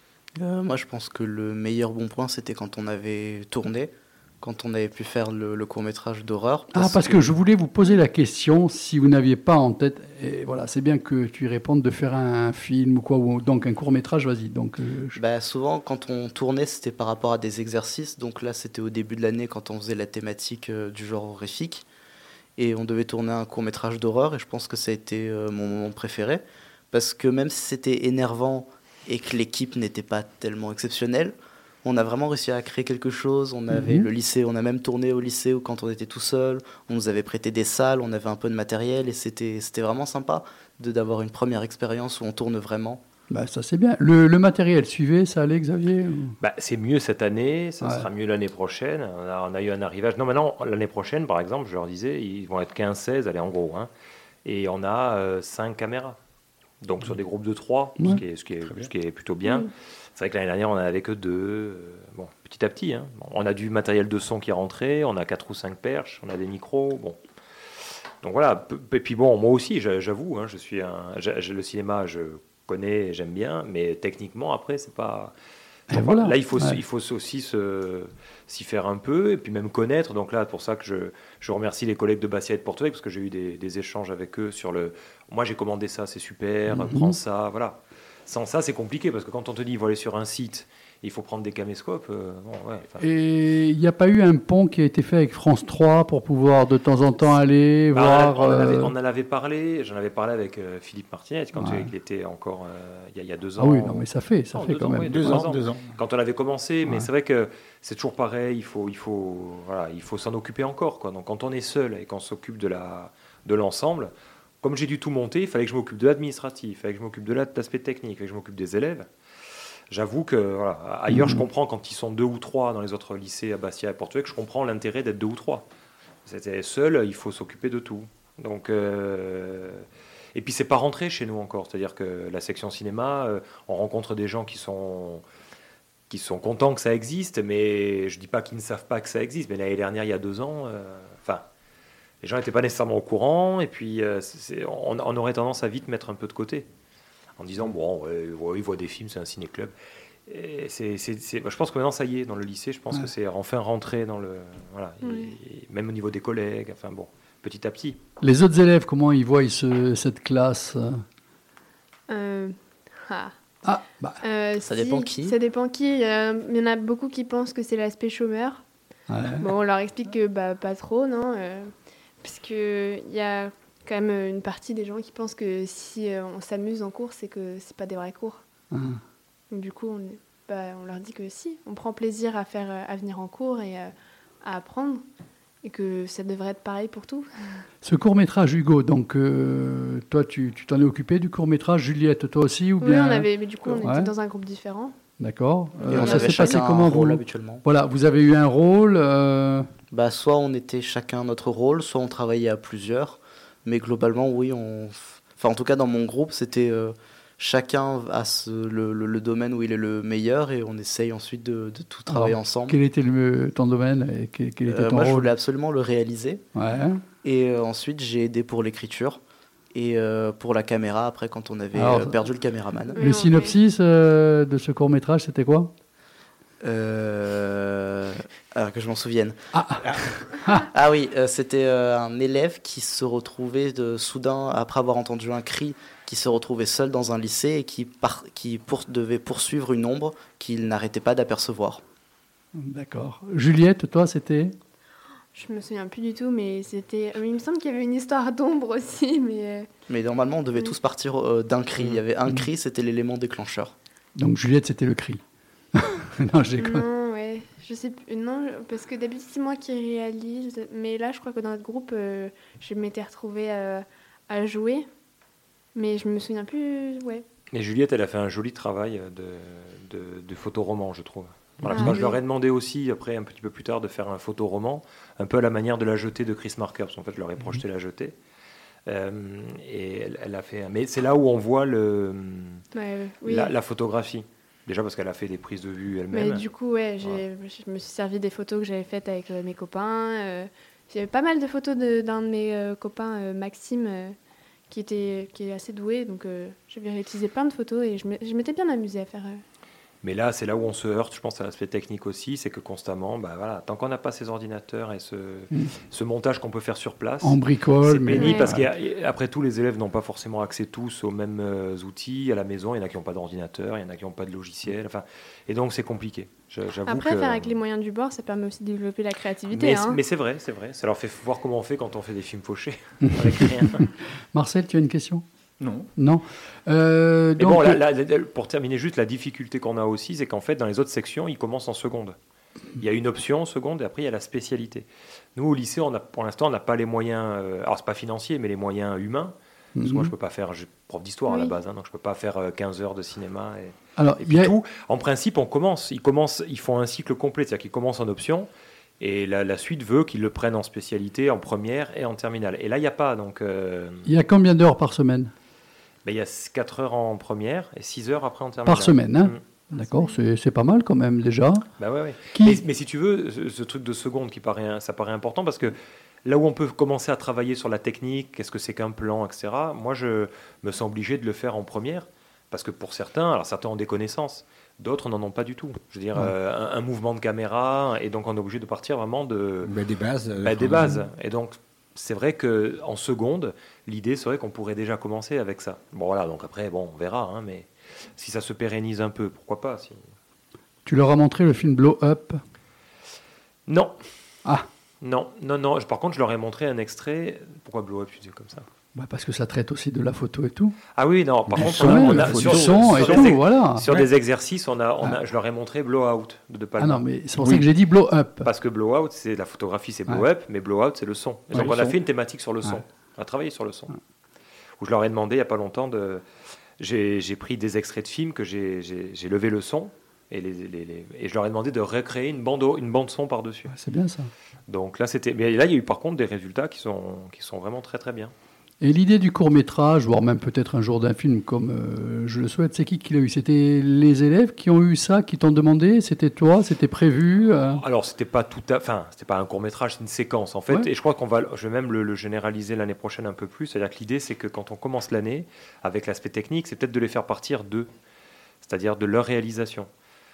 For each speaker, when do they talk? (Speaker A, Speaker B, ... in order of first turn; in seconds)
Speaker A: 0.4-7.3, 15.2-21.9, 22.6-43.0, 164.7-165.4, 195.9-197.6, 199.9-212.8, 214.7-216.4, 217.2-219.2, 219.7-223.0, 226.6-229.4, 230.7-241.8, 249.9-253.7
Speaker B: 6.7-15.2, 33.7-34.1, 43.3-46.4, 75.9-76.8, 86.7-87.2, 93.0-98.9, 101.6-101.9, 103.6-105.5, 121.1-121.4, 158.2-161.0, 163.6-164.2, 169.1-169.4, 178.7-179.0, 187.8-194.1, 195.2-199.7, 212.1-215.3, 216.6-217.0, 221.7-222.2, 223.0-225.7, 229.5-229.8, 242.6-244.6, 254.2-255.2, 255.7-256.8, 307.2-308.6, 323.8-325.2, 326.0-327.8, 339.8-340.1, 344.0-344.5, 354.1-355.3, 358.7-361.6, 362.3-362.6, 390.9-392.4, 398.9-400.8, 401.5-403.9, 406.8-408.5, 411.5-412.0, 423.7-424.3, 428.8-437.8
Speaker C: 46.4-53.9, 54.5-56.2, 56.8-67.2, 68.2-75.3, 75.9-93.0, 97.9-119.1, 119.9-125.6, 126.3-135.2, 136.1-141.4, 142.2-146.7, 147.4-149.7, 150.3-158.0, 267.5-278.1, 278.9-282.6, 283.3-286.5, 300.0-317.6, 319.5-323.9, 327.4-332.2, 332.8-334.8, 335.4-348.5, 349.0-354.1, 356.1-359.4, 361.8-379.7, 380.4-390.0, 393.7-394.0, 395.0-398.7, 401.0-407.7, 408.4-413.9, 414.8-416.2, 416.8-423.7, 424.7-428.3, 437.7-447.9, 448.6-449.9
Speaker D: 105.0-105.9, 325.6-325.9, 379.6-380.9, 401.6-403.3
Speaker E: 155.0-155.3, 162.1-163.3, 164.2-168.6, 169.4-178.4, 179.5-183.9, 184.4-185.1, 185.6-187.6, 192.8-194.9, 195.9-196.6, 222.9-223.6, 245.3-249.7, 256.6-264.9, 265.7-267.2, 271.7-272.2, 282.7-283.5, 286.1-294.2, 294.7-299.4, 308.1-308.5, 316.9-320.0, 341.3-341.5, 359.7-360.2